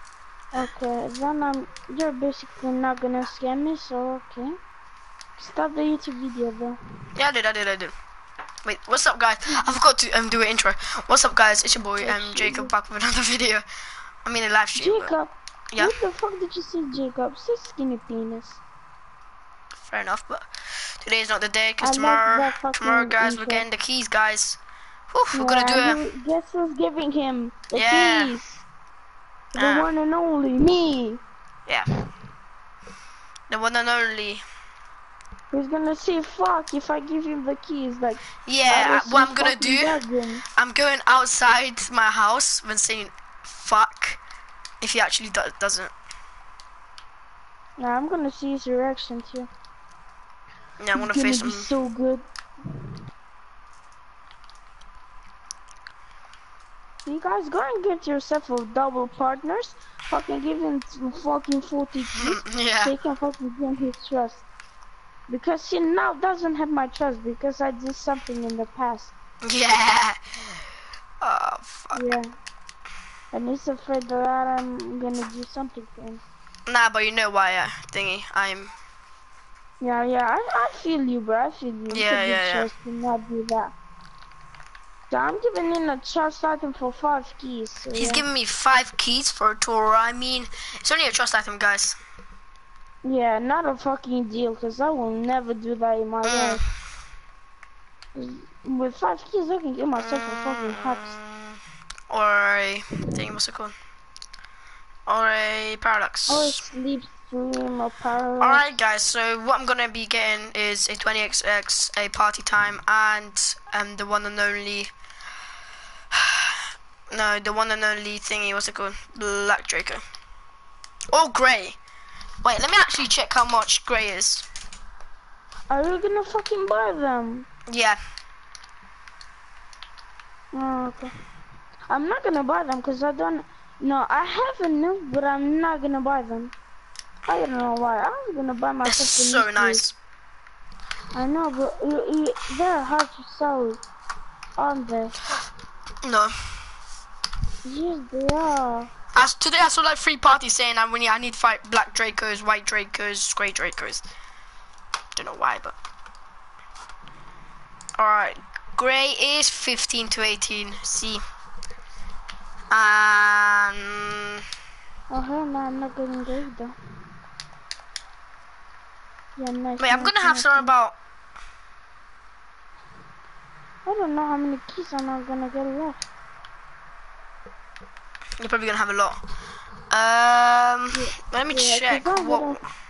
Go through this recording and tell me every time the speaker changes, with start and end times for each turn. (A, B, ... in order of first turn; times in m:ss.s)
0:00.5-0:04.6 A
0:05.4-0:06.8 A
0:07.2-0:07.9 B
0:08.6-0:13.6 B
0:12.0-0:12.7 A
0:14.2-0:15.1 B
0:14.7-0:18.6 A
0:19.8-0:20.5 B
0:21.0-0:24.6 B
0:21.8-0:23.6 A
0:25.1-0:26.0 B
0:25.3-0:28.6 A
0:27.7-0:28.4 B
0:29.5-0:31.2 A
0:29.6-0:29.9 B
0:33.5-0:34.4 B
0:35.5-0:40.4 A
0:38.4-0:40.0 B
0:40.6-0:44.2 B
0:44.8-0:45.9 B
0:47.8-0:49.5 A
0:50.8-0:51.7 B
0:50.9-0:52.2 A
0:57.0-1:04.4 A
1:02.1-1:02.9 B
1:05.3-1:09.1 A
1:09.4-1:10.2 B
1:11.2-1:12.0 B
1:11.9-1:12.3 A
1:13.3-1:16.2 A
1:16.7-1:18.7 B
1:19.8-1:23.7 A
1:21.9-1:22.7 B
1:25.1-1:28.3 A
1:27.9-1:32.0 B
1:33.0-1:36.6 A
1:36.2-1:36.6 B
1:38.1-1:41.2 A
1:40.0-1:41.6 B
1:42.1-1:43.7 B
1:45.1-1:46.6 B
1:46.3-1:48.8 A
1:48.4-1:54.9 B
1:56.1-1:56.6 B
1:57.1-2:00.0 B
2:01.1-2:01.8 B
2:02.4-2:04.4 B
2:05.7-2:07.5 A
2:07.7-2:08.0 B
2:10.5-2:11.1 A
2:11.9-2:16.5 A
2:17.3-2:19.8 A
2:18.8-2:19.9 B
2:21.1-2:23.8 A
2:24.6-2:25.2 A
2:26.0-2:26.3 B
2:27.6-2:28.9 A
2:29.1-2:34.0 B
2:35.1-2:35.7 B
2:38.0-2:41.2 B
2:42.7-2:44.3 B
2:45.1-2:46.8 A
2:49.4-2:50.7 A
2:49.8-2:50.9 B
2:53.8-2:56.1 A
2:58.4-2:59.2 B
2:59.9-3:02.6 B
3:00.9-3:02.6 A